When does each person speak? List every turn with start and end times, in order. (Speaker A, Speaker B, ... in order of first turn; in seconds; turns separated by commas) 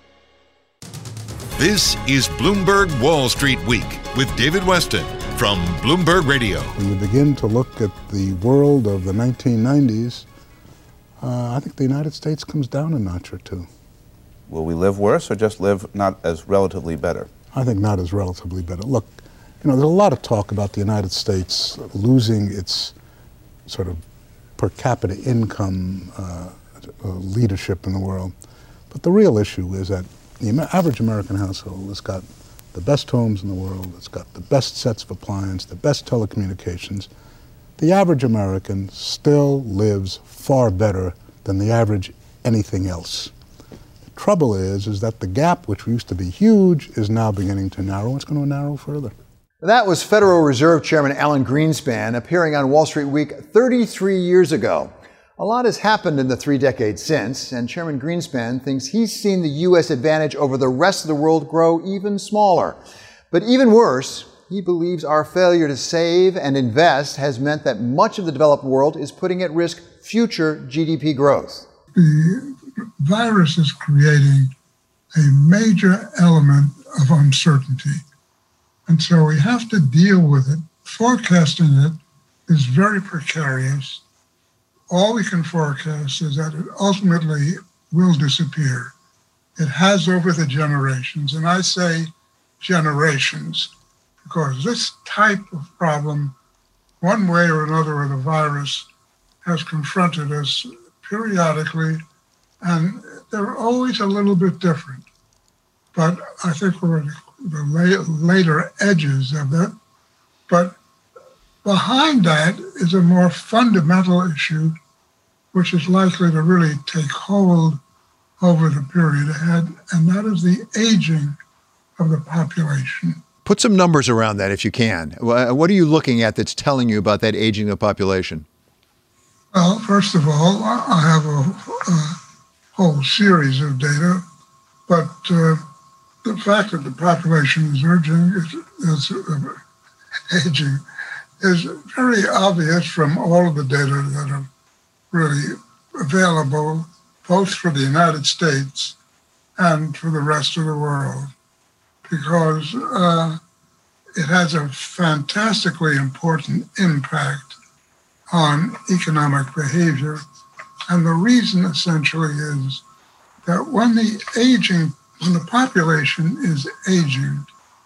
Speaker A: 1.6-6.8, Speaker B: 6.8-10.3, Speaker B: 11.2-13.7, Speaker C: 14.5-17.3, Speaker B: 17.5-22.9, Speaker B: 23.7-24.0, Speaker B: 24.6-28.3, Speaker B: 28.9-37.1, Speaker B: 37.8-43.3, Speaker B: 44.1-49.1, Speaker D: 49.6-62.8, Speaker D: 63.3-71.7, Speaker E: 71.9-74.5, Speaker E: 75.1-78.0, Speaker E: 78.9-84.0, Speaker E: 84.9-88.9, Speaker E: 89.6-93.7, Speaker E: 94.2-96.4, Speaker E: 97.0-98.9, Speaker E: 99.4-102.0, Speaker E: 102.6-105.1, Speaker E: 105.9-109.8, Speaker E: 110.5-110.8, Speaker E: 111.6-114.8, Speaker E: 115.5-117.8, Speaker E: 118.4-121.4, Speaker E: 122.0-123.2, Speaker D: 123.5-128.5, Speaker E: 129.5-132.2, Speaker E: 132.8-134.2, Speaker E: 134.9-135.7, Speaker E: 136.2-139.6, Speaker E: 140.3-140.8, Speaker E: 141.4-144.5, Speaker E: 145.1-149.0, Speaker E: 149.6-151.3, Speaker E: 152.1-153.4, Speaker E: 154.2-157.6, Speaker E: 158.3-160.2, Speaker E: 160.9-162.8, Speaker E: 163.5-167.5